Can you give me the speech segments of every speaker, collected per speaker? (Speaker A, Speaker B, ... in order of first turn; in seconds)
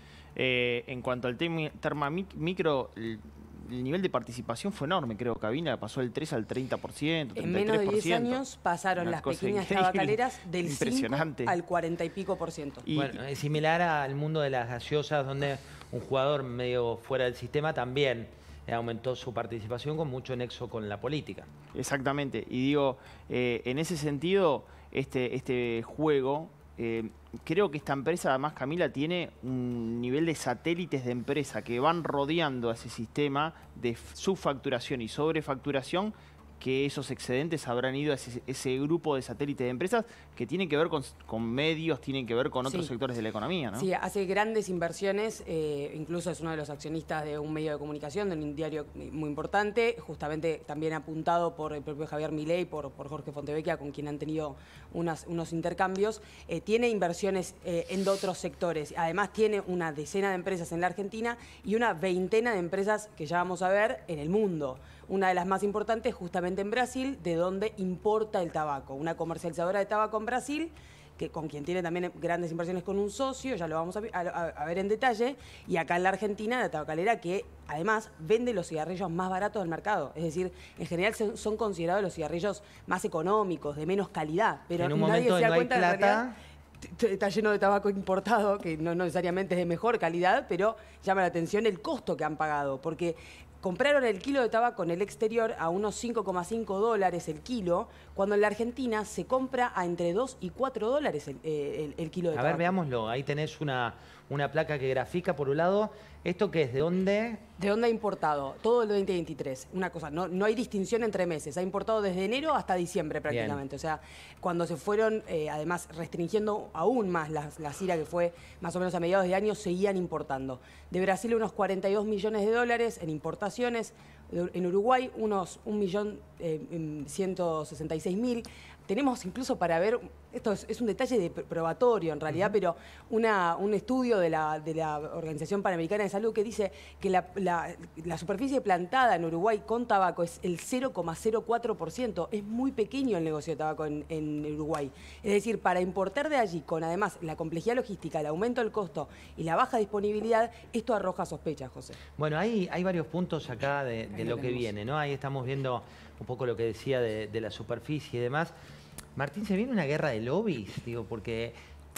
Speaker A: 0.4-8.4, 9.0-11.6, 12.8-13.2, 21.7-43.9
Speaker B: 7.4-12.8, 42.6-42.9, 43.7-86.3, 86.8-102.8, 107.6-152.0
Speaker C: 12.9-21.5, 84.8-86.3, 102.3-107.4, 113.3-113.6, 152.2-158.5, 159.2-161.6